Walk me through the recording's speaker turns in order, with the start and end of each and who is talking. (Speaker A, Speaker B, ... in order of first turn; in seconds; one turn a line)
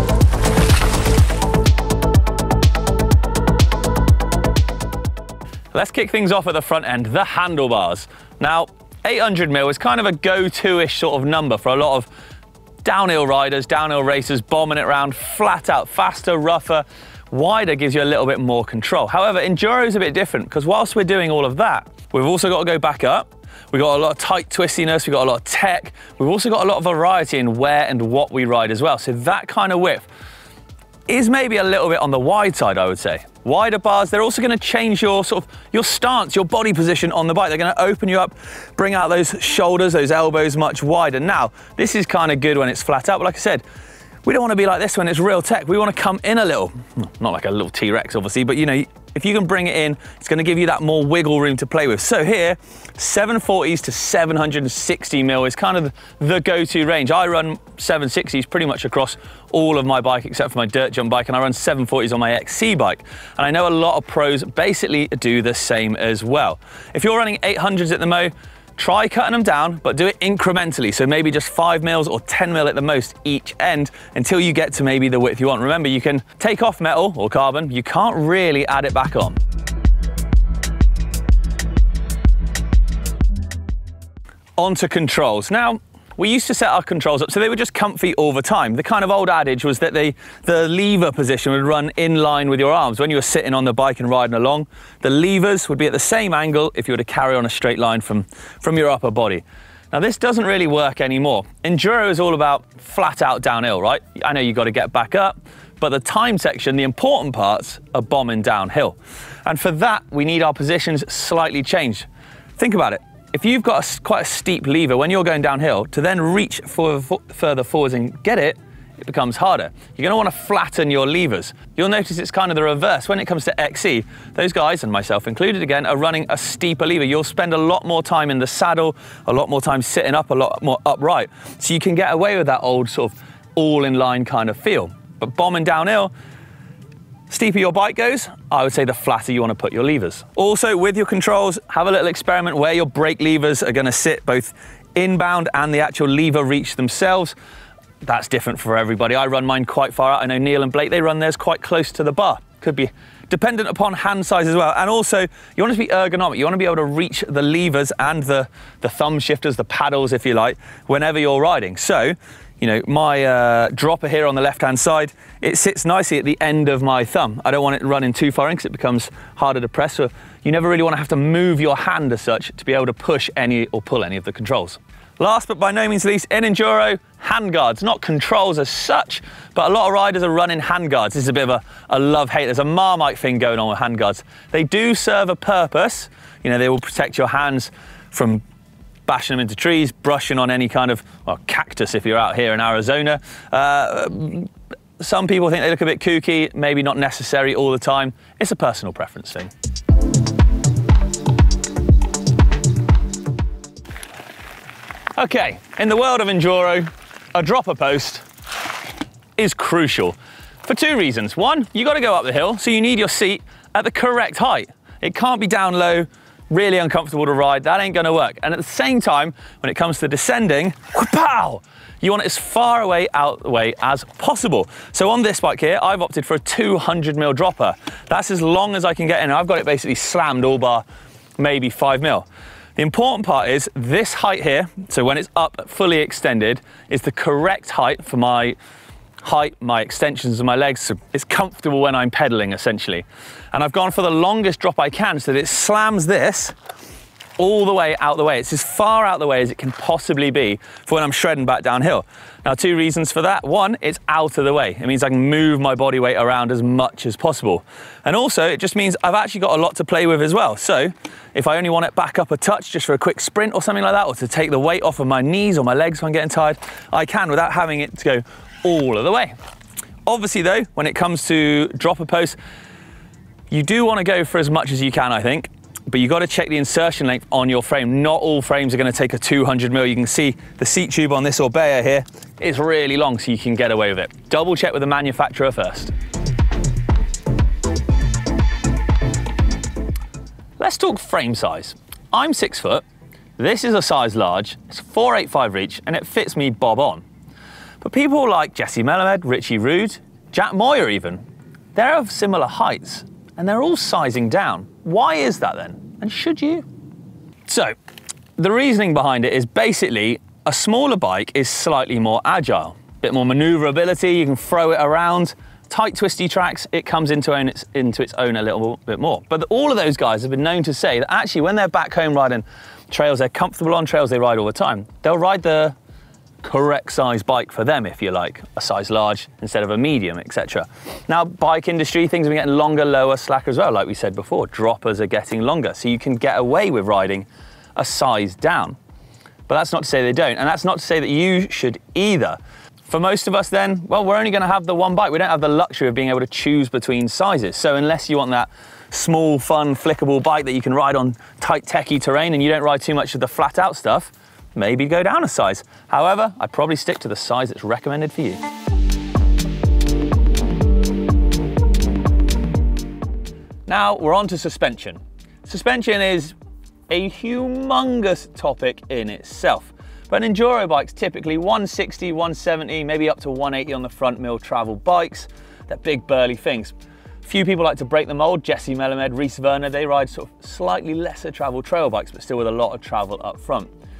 Speaker A: 5.7-12.1
Speaker A: 12.8-30.1
Speaker A: 31.1-43.6
Speaker A: 44.2-79.4
Speaker A: 84.6-136.1
Speaker A: 137.3-147.3
Speaker A: 148.0-188.4
Speaker A: 189.1-199.5
Speaker A: 205.2-208.2
Speaker A: 209.4-230.8
Speaker A: 231.4-238.6
Speaker A: 239.2-246.5
Speaker A: 247.4-269.3
Speaker A: 270.1-272.4
Speaker A: 273.5-285.9
Speaker A: 290.6-292.8
Speaker A: 293.4-297.0
Speaker A: 297.8-301.2
Speaker A: 301.7-306.6
Speaker A: 307.4-307.7
Speaker A: 308.4-325.7
Speaker A: 326.4-338.8
Speaker A: 339.5-358.4
Speaker A: 363.7-366.3
Speaker A: 366.9-383.7